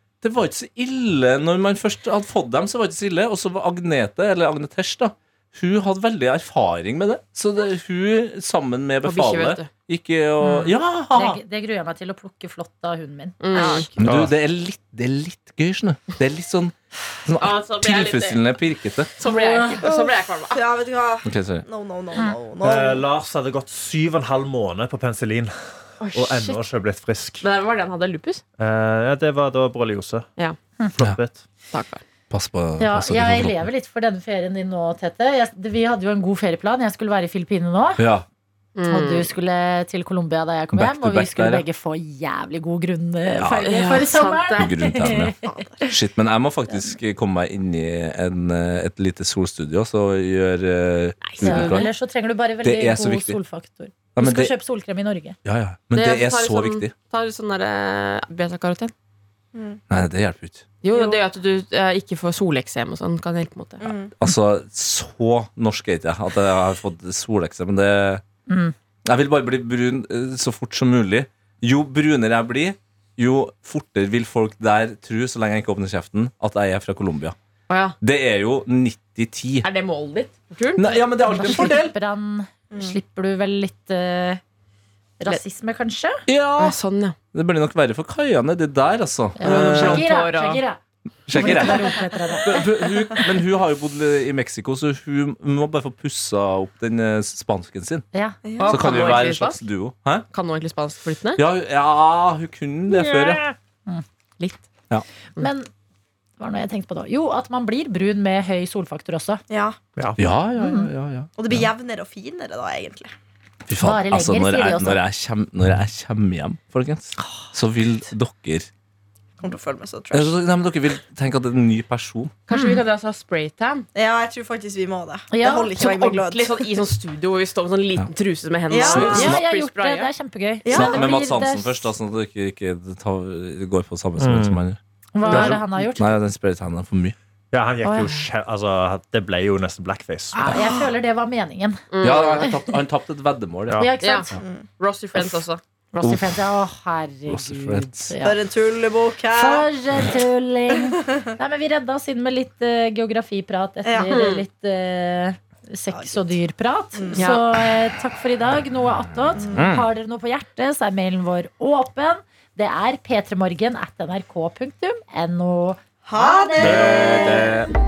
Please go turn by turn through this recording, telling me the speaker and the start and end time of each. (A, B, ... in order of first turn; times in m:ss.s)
0:00.2-0:11.4 A
0:09.0-0:09.7 B
0:10.4-0:13.4 C
0:13.4-0:13.9 B
0:13.5-0:14.0 D
0:14.0-0:19.1 A
0:14.0-0:14.3 E
0:17.4-0:18.4 B
0:19.2-0:20.6 B
0:19.2-0:19.9 C
0:19.8-0:23.0 D
0:21.2-0:21.6 A
0:22.6-0:27.4 E
0:26.0-0:26.6 B
0:27.4-0:28.4 B
0:28.6-0:30.3 E
0:30.9-0:31.4 E
0:31.7-0:32.0 B
0:32.3-0:33.6 A
0:32.8-0:38.0 C
0:38.0-0:38.2 A
0:38.8-0:39.3 B
0:38.9-0:45.9 C
0:40.7-0:41.6 A
0:43.3-0:43.7 A
0:43.6-0:44.8 B
0:44.6-0:51.9 A
0:45.4-0:45.8 D
0:51.2-0:51.8 B
0:51.4-0:55.4 C
0:52.6-0:53.4 A
0:54.1-0:54.5 A
0:55.4-0:56.9 A
0:55.9-0:58.9 B
0:59.5-0:59.8 D
0:59.9-1:00.6 A
1:00.8-1:03.9 B
1:03.8-1:04.1 D
1:04.2-1:08.2 A
1:08.5-1:08.7 C
1:09.0-1:17.3 A
1:17.7-1:18.0 B
1:18.0-1:19.7 A
1:19.6-1:21.0 B
1:20.8-1:21.9 A
1:21.3-1:24.4 C
1:22.7-1:23.0 D
1:25.2-1:26.2 C
1:26.3-1:26.8 A
1:26.6-1:27.2 B
1:27.3-1:30.1 A
1:29.4-1:30.8 C
1:29.4-1:30.6 B
1:31.3-1:38.0 A
1:31.3-1:32.6 C
1:38.1-1:38.4 C
1:38.4-1:39.2 D
1:38.6-1:39.6 B
1:38.6-1:40.3 A
1:40.3-1:41.4 B
1:41.4-1:43.5 A
1:42.9-1:43.3 B
1:44.4-1:44.7 B
1:45.4-1:45.7 C
1:46.4-1:49.4 C
1:49.5-1:49.8 D
1:50.2-1:51.3 A
1:50.6-1:50.9 C
1:51.4-1:53.1 D
1:53.7-1:58.7 A
1:53.8-1:55.0 C
1:59.4-2:00.4 D
2:00.1-2:02.3 A
2:02.5-2:03.9 B
2:02.5-2:02.8 C
2:03.9-2:06.7 D
2:05.3-2:05.8 C
2:05.8-2:10.1 B
2:08.7-2:09.3 D
2:08.8-2:09.4 A
2:08.9-2:11.9 C
2:10.6-2:11.1 D
2:10.7-2:17.2 A
2:14.2-2:14.6 E
2:15.1-2:16.2 C
2:15.3-2:15.5 B
2:17.5-2:20.5 E
2:17.8-2:18.2 C
2:20.4-2:21.8 C
2:20.5-2:20.8 D
2:21.9-2:22.6 B
2:22.0-2:23.9 A
2:22.4-2:22.7 C
2:23.8-2:24.3 C
2:24.0-2:25.6 B
2:24.4-2:24.6 D
2:25.2-2:25.4 C
2:25.9-2:28.4 C
2:26.0-2:26.4 A
2:27.3-2:28.1 A
2:28.2-2:29.7 D
2:29.3-2:47.3 C
2:30.7-2:31.2 D
2:33.8-2:34.3 D
2:34.0-2:34.4 B
2:35.9-2:36.4 D
2:37.0-2:37.3 D
2:37.1-2:37.4 B
2:39.5-2:39.9 A
2:46.0-2:47.6 D
2:46.6-2:47.7 A